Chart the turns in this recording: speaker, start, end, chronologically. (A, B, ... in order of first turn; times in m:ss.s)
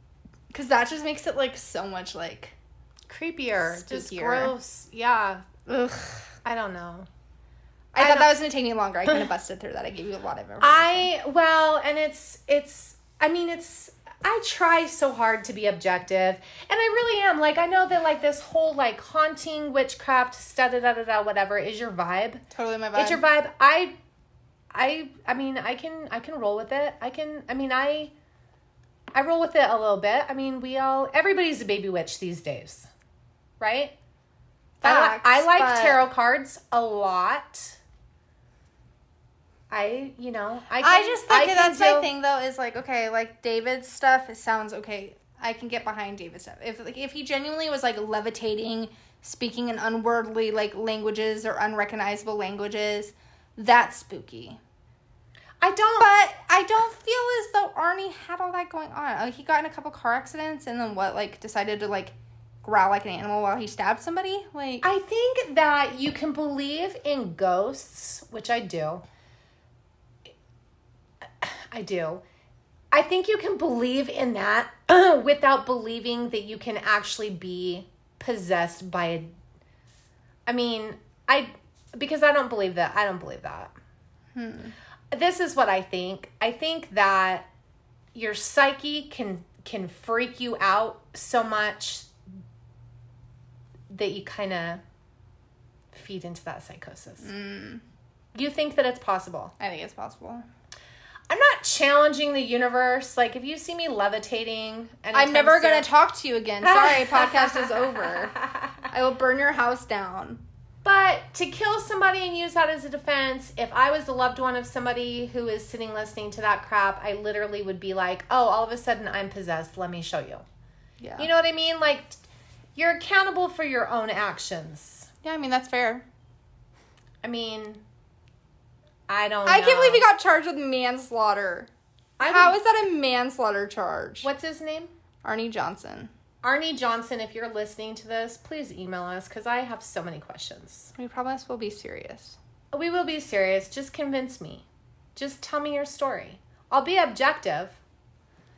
0:00.5-0:02.6 A
0:03.1-0:07.1 B
0:03.6-0:04.5 A
0:07.9-0:11.1 A
0:08.0-0:08.4 B
0:10.6-0:22.4 B
0:22.5-0:23.2 A
0:22.9-0:24.0 B
0:24.7-0:28.1 B
0:29.1-0:32.9 B
0:33.6-0:33.9 B
0:34.8-0:36.0 A
0:34.8-0:37.8 B
0:39.7-0:42.1 B
0:40.8-0:54.6 A
0:55.6-0:56.1 B
0:56.0-1:04.9 A
1:04.8-1:09.0 B
1:11.4-1:12.2 B
1:12.9-1:19.3 B
1:20.5-1:23.7 B
1:24.3-1:24.7 A
1:25.1-1:27.5 B
1:28.1-1:32.1 B
1:33.9-1:34.8 B
1:35.9-1:37.3 B
1:37.2-1:37.8 A
1:38.3-1:39.5 B
1:39.6-1:40.4 A
1:41.3-1:45.9 B
1:45.1-1:50.4 A
1:46.6-1:48.1 B
1:50.8-2:00.4 B
2:01.0-2:01.3 A
2:01.2-2:02.2 B
2:02.8-2:05.1 B
2:05.2-2:06.0 A
2:07.2-2:07.8 B
2:09.1-2:10.0 B
2:09.4-2:11.7 A
2:12.2-2:12.6 B
2:12.2-2:14.3 A
2:14.2-2:14.9 B
2:15.2-2:16.1 A
2:16.4-2:20.9 B
2:20.9-2:22.4 A
2:22.7-2:27.8 B